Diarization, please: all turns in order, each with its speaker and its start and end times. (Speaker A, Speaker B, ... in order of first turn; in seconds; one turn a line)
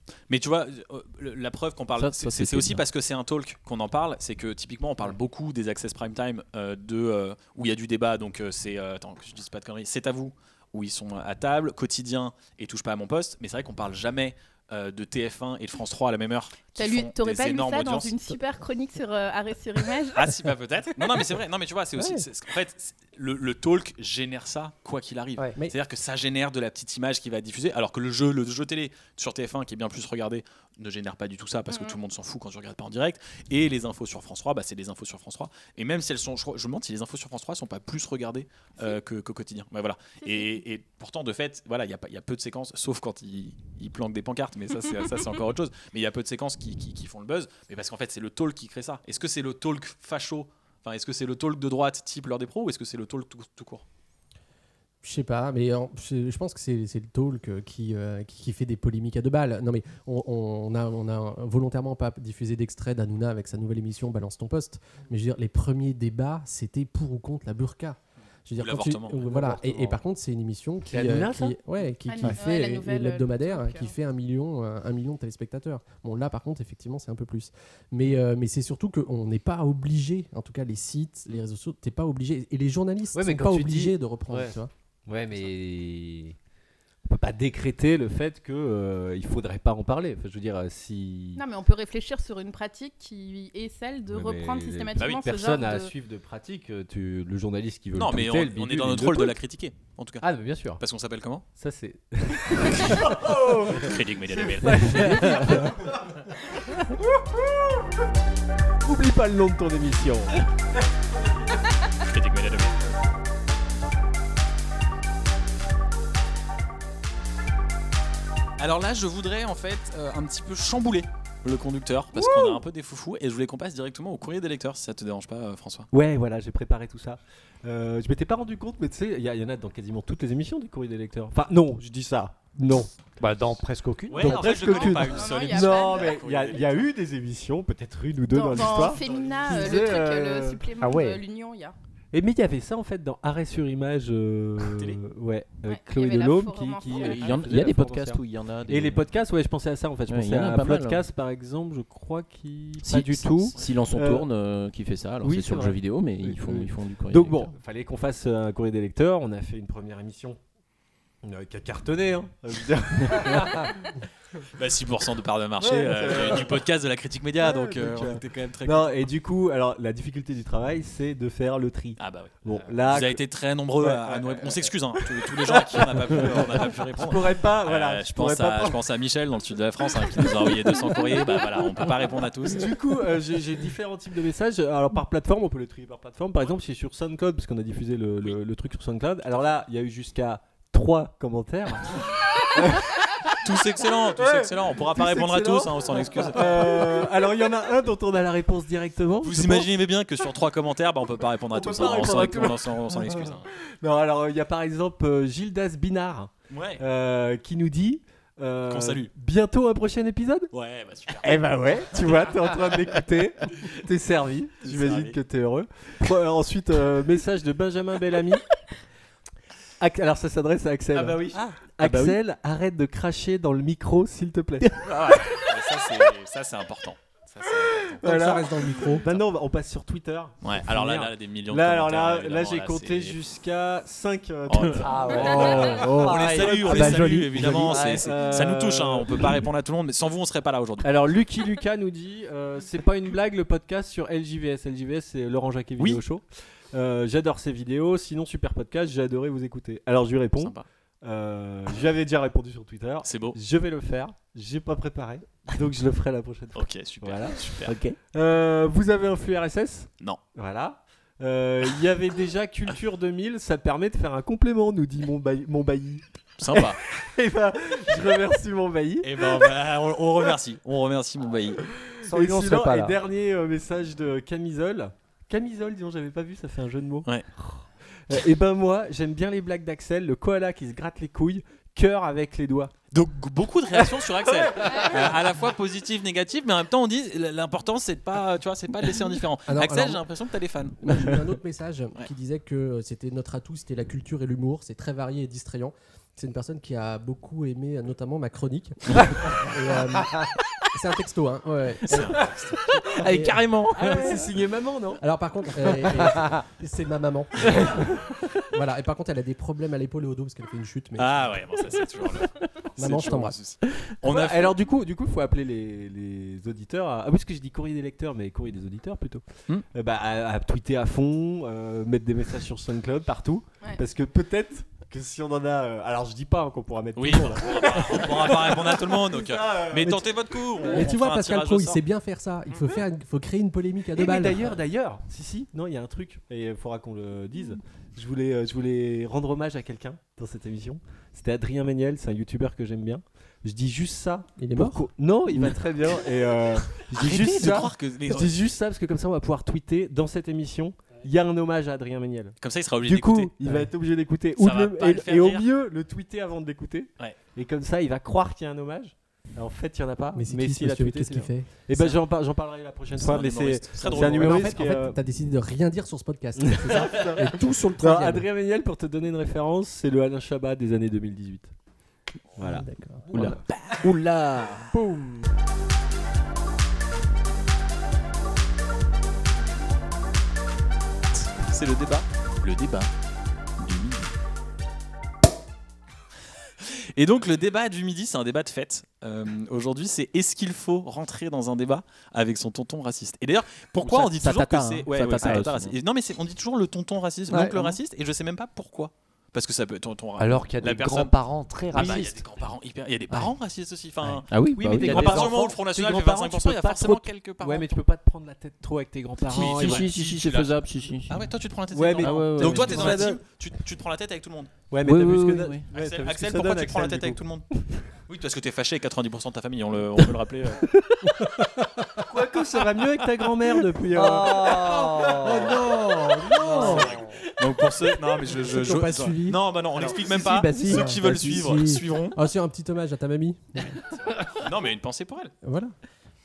Speaker A: 0.3-18.1
Speaker B: 1.9-2.8
Speaker C: 16.7-20.3
Speaker A: 20.1-53.8
Speaker D: 22.0-22.2
Speaker C: 31.7-31.9
Speaker D: 55.0-84.7
Speaker A: 68.6-69.2
Speaker E: 69.1-70.0
Speaker F: 70.8-71.6
Speaker C: 72.0-73.9
Speaker F: 83.1-84.5
Speaker F: 85.1-86.3
Speaker F: 87.0-91.4
Speaker C: 91.4-95.9
Speaker F: 94.1-99.4
Speaker A: 95.0-95.2
Speaker A: 97.9-101.4
Speaker F: 100.2-100.8
Speaker F: 101.6-107.8
Speaker A: 102.7-105.3
Speaker B: 104.9-105.6
Speaker F: 108.8-110.4
Speaker A: 112.0-112.8
Speaker A: 118.6-125.9
Speaker F: 122.1-122.6
Speaker F: 125.9-132.9
Speaker E: 133.2-134.5
Speaker A: 134.1-136.9
Speaker F: 134.1-140.6
Speaker C: 134.5-136.2
Speaker C: 138.3-141.8
Speaker A: 138.7-139.9
Speaker E: 140.8-141.2
Speaker F: 142.1-154.3
Speaker A: 144.6-145.0
Speaker C: 145.7-147.4
Speaker B: 146.9-149.1
Speaker B: 150.1-151.0
Speaker B: 152.8-157.5
Speaker F: 155.2-160.4
Speaker F: 161.2-163.9
Speaker A: 164.6-169.0
Speaker F: 165.6-166.6
Speaker F: 167.4-173.2
Speaker A: 172.0-182.7
Speaker F: 173.8-178.8
Speaker F: 180.0-181.6
Speaker F: 182.4-193.0
Speaker A: 193.4-196.7
Speaker F: 194.1-199.7
Speaker A: 199.2-203.5
Speaker F: 201.5-210.5
Speaker A: 206.5-206.8
Speaker A: 208.7-209.1
Speaker A: 210.5-211.4
Speaker F: 211.2-218.4
Speaker A: 214.6-215.2
Speaker F: 219.8-224.8
Speaker B: 220.9-222.2
Speaker A: 224.8-228.1
Speaker D: 228.0-229.1
Speaker F: 228.0-239.4
Speaker A: 230.4-233.2
Speaker A: 234.5-240.9
Speaker E: 234.8-238.1
Speaker B: 235.4-237.7
Speaker F: 240.8-257.5
Speaker A: 250.4-250.6
Speaker A: 253.0-253.4
Speaker A: 256.5-257.7
Speaker B: 257.7-258.0
Speaker F: 258.1-269.5
Speaker A: 266.4-266.8
Speaker A: 269.0-271.6
Speaker F: 271.7-282.7
Speaker E: 272.0-273.0
Speaker A: 282.9-291.1
Speaker F: 284.2-284.7
Speaker C: 284.6-285.0
Speaker D: 289.4-290.0
Speaker D: 290.8-302.2
Speaker A: 301.9-302.6
Speaker B: 302.9-304.2
Speaker D: 303.0-303.4
Speaker F: 303.7-305.0
Speaker D: 305.0-311.4
Speaker A: 311.0-314.5
Speaker D: 312.8-313.4
Speaker F: 314.0-330.8
Speaker A: 326.9-331.8
Speaker D: 330.7-334.4
Speaker F: 333.9-365.0
Speaker D: 344.4-344.9
Speaker A: 346.9-348.3
Speaker A: 352.4-353.3
Speaker D: 353.4-353.7
Speaker A: 354.4-355.4
Speaker D: 360.1-361.5
Speaker A: 361.7-362.0
Speaker A: 362.9-364.6
Speaker D: 363.8-368.2
Speaker F: 366.4-371.5
Speaker F: 372.4-373.4
Speaker D: 372.4-373.4
Speaker B: 373.1-374.9
Speaker A: 381.4-382.9
Speaker A: 383.6-384.0
Speaker A: 386.6-401.1
Speaker B: 393.8-395.7
Speaker E: 397.3-397.7
Speaker E: 400.2-402.2
Speaker A: 401.7-407.8
Speaker B: 404.3-405.4
Speaker F: 404.6-410.0
Speaker B: 409.3-411.2
Speaker A: 409.3-414.5
Speaker F: 411.7-413.2
Speaker B: 412.0-413.0
Speaker F: 414.7-417.6
Speaker B: 414.8-415.7
Speaker A: 415.7-417.4
Speaker A: 418.1-420.7
Speaker F: 422.1-426.8
Speaker E: 423.9-425.7
Speaker E: 426.4-427.1
Speaker D: 426.4-426.9
Speaker A: 426.6-432.2
Speaker D: 428.3-429.5
Speaker F: 429.8-430.2
Speaker D: 430.1-433.7
Speaker A: 434.4-435.3
Speaker D: 435.4-435.7